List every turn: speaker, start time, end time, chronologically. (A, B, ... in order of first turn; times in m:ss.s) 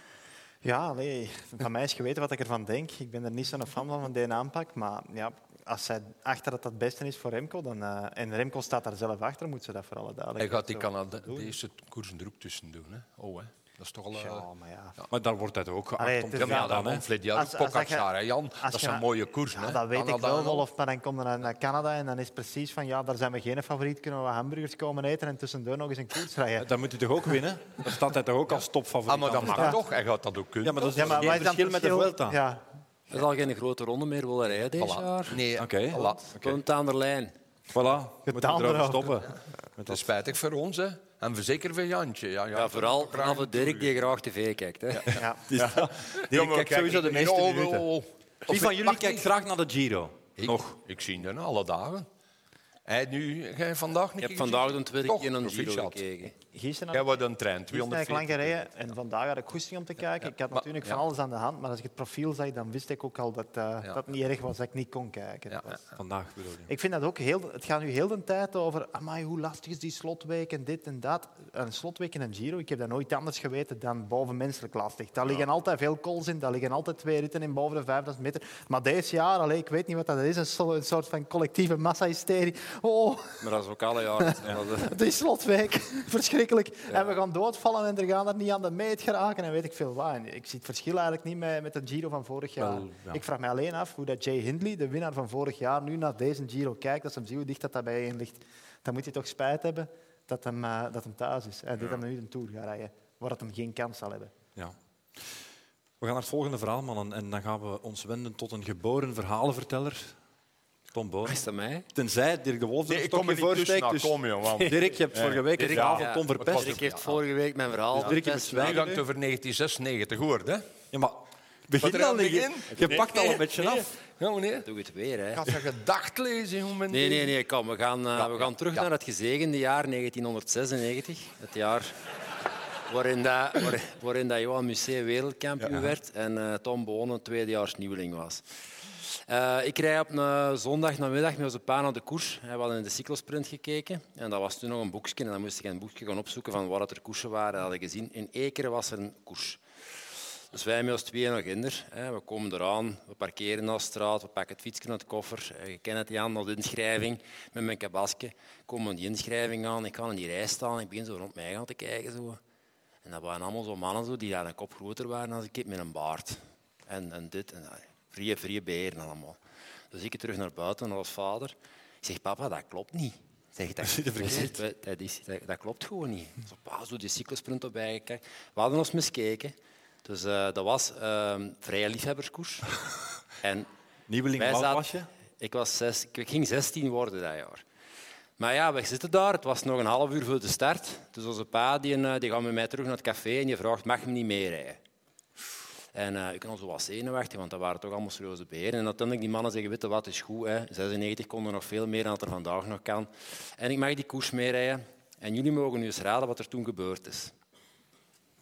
0:00.6-0:11.5 A
0:10.4-0:14.5 B
0:14.2-0:15.0 A
0:15.1-0:17.1 C
0:16.0-0:18.1 A
0:16.4-0:20.7 B
0:18.6-0:26.7 A
0:26.6-0:29.8 C
0:29.1-0:31.4 B
0:30.6-0:32.4 C
0:30.9-0:32.6 A
0:33.1-0:35.4 D
0:34.8-0:36.3 B
0:35.6-0:36.6 C
0:36.3-0:37.3 D
0:37.7-0:40.0 C
0:38.3-0:39.3 A
0:39.9-0:44.1 B
0:42.5-0:45.2 D
0:45.0-0:49.3 B
0:45.1-0:45.4 A
0:45.5-0:47.9 C
0:48.5-0:50.8 C
0:50.4-0:52.1 B
0:52.9-0:56.0 B
0:54.2-0:56.4 D
0:56.5-1:05.8 A
0:56.9-0:58.7 B
1:00.5-1:01.0 B
1:05.5-1:05.8 B
1:06.0-1:06.7 C
1:06.7-1:23.5 A
1:23.4-1:25.0 D
1:24.8-1:44.3 A
1:32.6-1:33.2 C
1:44.6-1:45.4 C
1:46.0-1:50.1 C
1:50.9-1:51.4 C
1:51.2-1:51.9 D
1:51.9-1:56.8 C
1:52.9-1:57.2 B
1:55.6-1:58.8 D
1:58.0-1:59.0 C
1:58.0-2:00.6 B
2:00.9-2:03.9 C
2:01.8-2:04.7 B
2:04.6-2:05.4 D
2:05.3-2:07.3 B
2:06.9-2:12.0 D
2:08.2-2:08.8 B
2:12.9-2:18.4 D
2:19.0-2:29.6 D
2:30.5-2:42.4 D
2:43.0-2:49.4 D
2:49.9-3:02.7 D
2:53.8-2:54.6 C
3:03.4-3:03.7 D
3:04.1-3:05.1 C
3:04.4-3:07.6 D
3:08.4-3:14.8 D
3:15.9-3:27.3 D